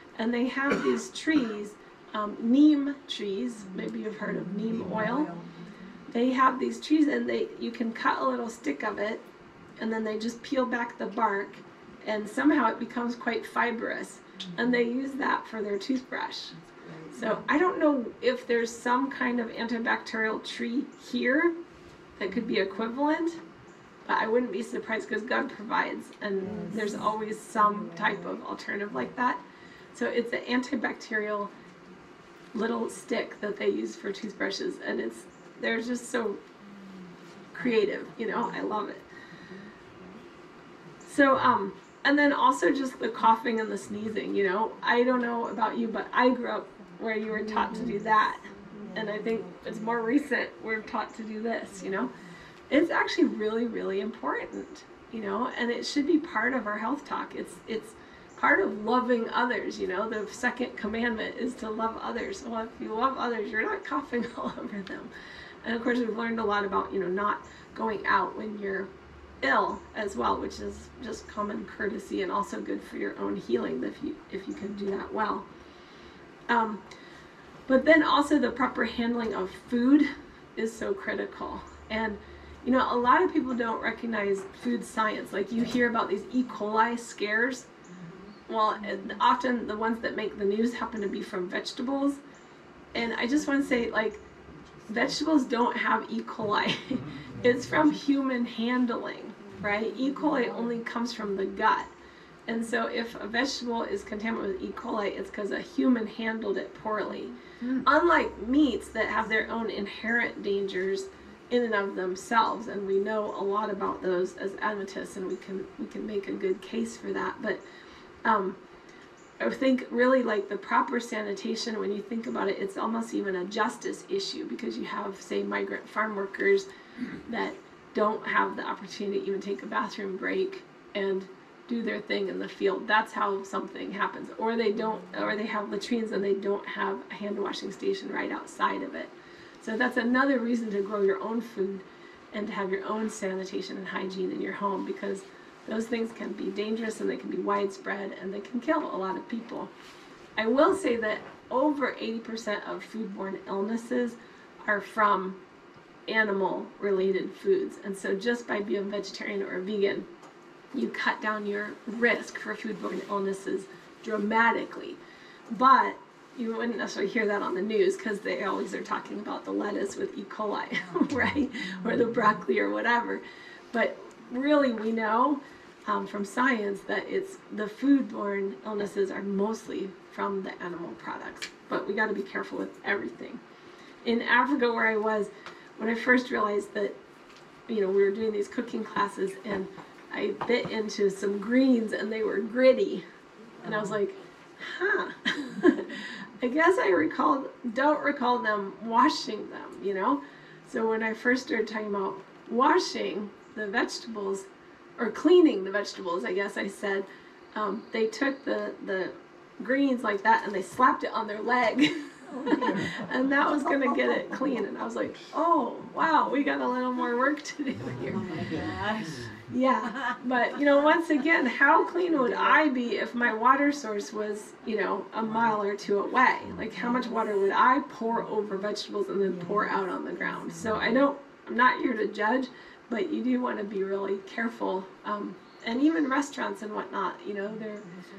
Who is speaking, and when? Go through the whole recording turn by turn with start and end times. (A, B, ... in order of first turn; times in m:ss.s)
0:00.2-0:05.3 A
0:04.7-0:05.4 B
0:06.1-0:09.2 A
0:09.8-0:16.5 A
0:16.6-0:17.4 B
0:17.1-0:21.5 A
0:22.2-0:23.4 A
0:24.0-0:29.4 A
0:26.6-0:27.0 B
0:29.9-0:31.5 A
0:32.5-0:36.4 A
0:37.5-0:39.0 A
0:41.0-0:52.1 A
0:48.7-0:49.2 B
0:52.7-1:05.1 A
1:05.6-1:08.9 A
1:09.4-1:15.4 A
1:16.5-1:16.8 A
1:17.7-1:27.7 A
1:27.9-1:28.2 B
1:28.5-1:32.2 A
1:32.9-1:34.2 A
1:34.9-1:41.9 A
1:42.5-1:57.6 A
1:58.2-1:58.6 A
1:59.4-2:06.6 A
2:07.3-2:29.7 A
2:30.4-2:35.4 A
2:36.1-2:40.1 A
2:40.7-2:45.0 A
2:45.5-3:03.4 A
3:04.0-3:07.0 A
3:07.7-3:13.0 A
3:13.6-3:24.4 A
3:25.0-3:38.5 A
3:32.3-3:33.0 B
3:38.2-3:39.2 B
3:39.5-3:57.8 A